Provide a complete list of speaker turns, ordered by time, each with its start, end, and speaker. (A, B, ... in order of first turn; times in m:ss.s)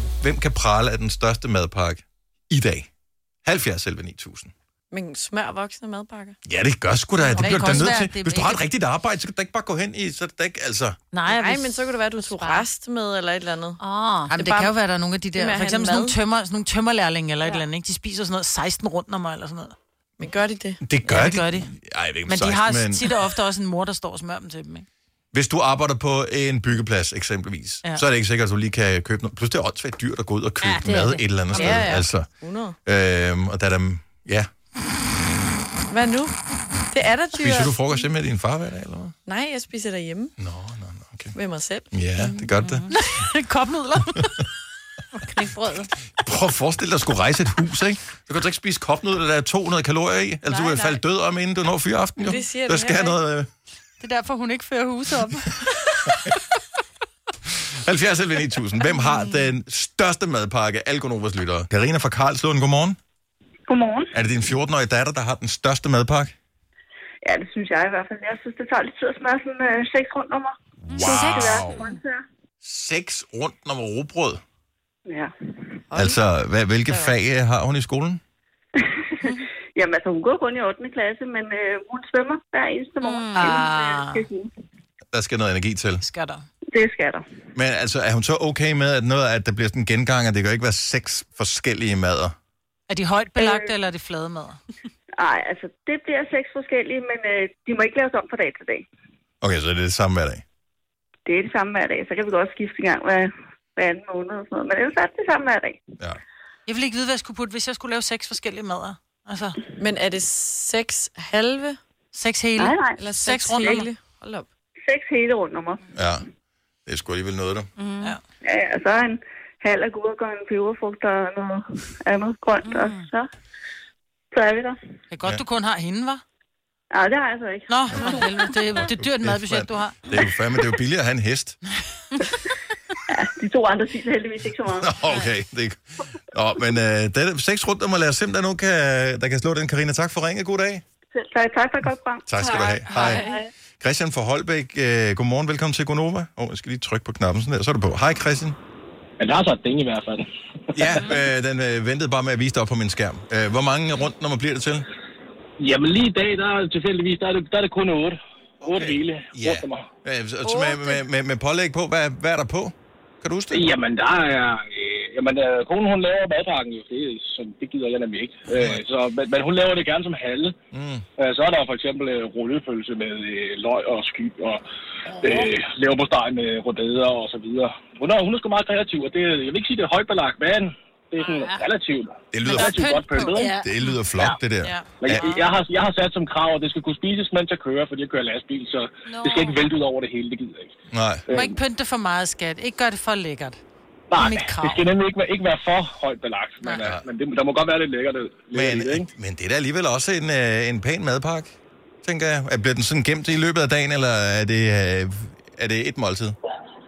0:00.2-0:02.9 A
0:03.4-0:04.5 A
0:04.9-0:06.4 B
0:06.4-0:11.0 A
0:07.2-0:08.6 C
0:07.4-0:08.0 B
0:11.1-0:12.6 C
0:11.2-0:13.8 B
0:13.8-0:14.3 D
0:14.3-0:19.8 C
0:14.3-0:14.8 B
0:15.3-0:16.2 B
0:20.2-0:20.8 B
0:20.8-0:23.2 A
0:21.1-0:21.7 C
0:22.2-0:24.8 C
0:25.3-0:32.3 A
0:30.8-0:32.8 B
0:32.8-0:34.5 A
0:35.9-0:37.8 B
0:37.4-0:39.1 A
0:39.2-0:40.3 B
0:40.4-0:41.3 A
0:41.3-0:41.9 B
0:41.9-0:42.9 A
0:42.9-0:44.4 C
0:45.3-0:45.9 D
0:46.2-0:53.5 A
0:50.5-0:51.0 B
0:52.2-0:53.2 B
0:54.0-0:55.6 C
0:57.5-1:03.0 A
1:03.7-1:04.1 D
1:04.1-1:06.3 A
1:07.2-1:12.2 D
1:10.9-1:11.9 A
1:11.0-1:11.6 C
1:12.6-1:14.4 A
1:15.9-1:16.2 B
1:16.0-1:18.2 A
1:16.9-1:17.1 B
1:18.8-1:24.5 D
1:23.0-1:24.2 C
1:25.1-1:26.0 A
1:26.0-1:26.4 C
1:26.7-1:27.2 D
1:27.5-1:32.3 A
1:32.9-1:34.6 C
1:33.4-1:33.7 D
1:35.2-1:38.8 D
1:39.4-1:40.4 A
1:41.2-1:45.8 D
1:46.6-1:49.6 C
1:49.8-1:51.8 B
1:52.1-1:53.9 C
1:52.6-1:53.0 D
1:53.0-1:54.5 B
1:53.6-1:53.9 D
1:54.8-1:55.9 D
1:56.0-1:56.2 A
1:56.8-1:57.7 A
1:57.8-2:03.3 D
2:04.3-2:04.8 D
2:05.1-2:06.2 C
2:06.9-2:08.5 D
2:07.7-2:10.2 C
2:08.8-2:11.6 A
2:13.1-2:14.9 D
2:14.8-2:20.8 A
2:21.1-2:22.4 D
2:22.3-2:28.6 A
2:22.8-2:23.3 C
2:23.1-2:23.5 D
2:29.2-2:31.0 E
2:30.7-2:34.9 A
2:35.6-2:39.9 E
2:38.6-2:43.7 A
2:43.5-2:50.5 E
2:48.5-2:48.8 A
2:50.7-2:51.0 A
2:51.2-2:54.6 E
2:55.2-3:03.6 E
3:02.3-3:05.4 A
3:02.4-3:03.6 C
3:04.6-3:05.5 C
3:05.0-3:10.7 E
3:10.9-3:11.2 A
3:11.3-3:11.6 E
3:11.3-3:13.6 C
3:14.1-3:19.1 E
3:14.2-3:14.8 C
3:18.5-3:21.5 A
3:22.0-3:26.4 A